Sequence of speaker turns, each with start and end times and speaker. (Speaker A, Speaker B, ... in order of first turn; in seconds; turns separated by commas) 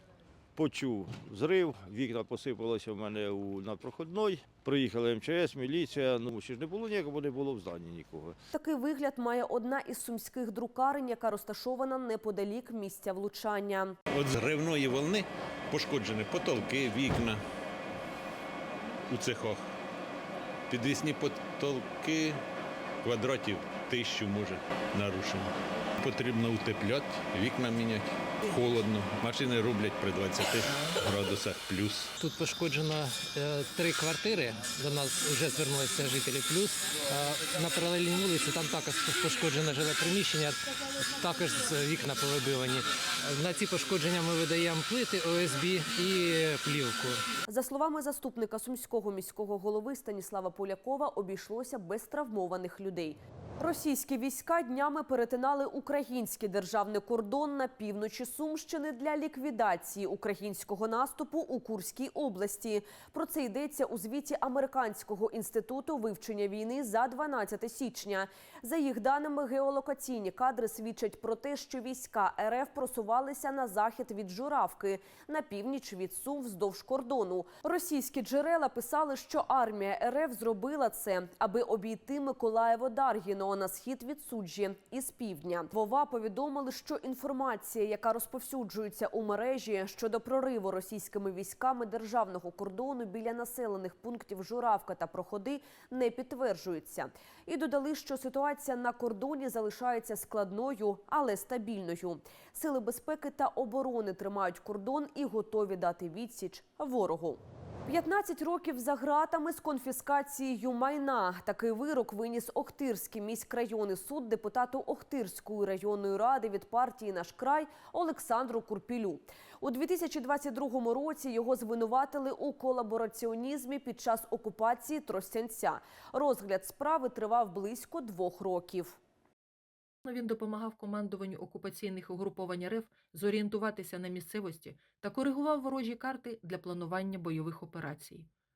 Speaker A: 0.6-8.3, Speaker B: 8.5-13.9, Speaker C: 14.1-17.4, Speaker C: 19.1-19.7, Speaker C: 20.7-22.4, Speaker C: 23.0-32.1, Speaker D: 32.2-36.7, Speaker D: 37.2-40.5, Speaker D: 41.3-42.8, Speaker D: 43.3-47.2, Speaker B: 47.5-129.0, Speaker E: 130.1-138.3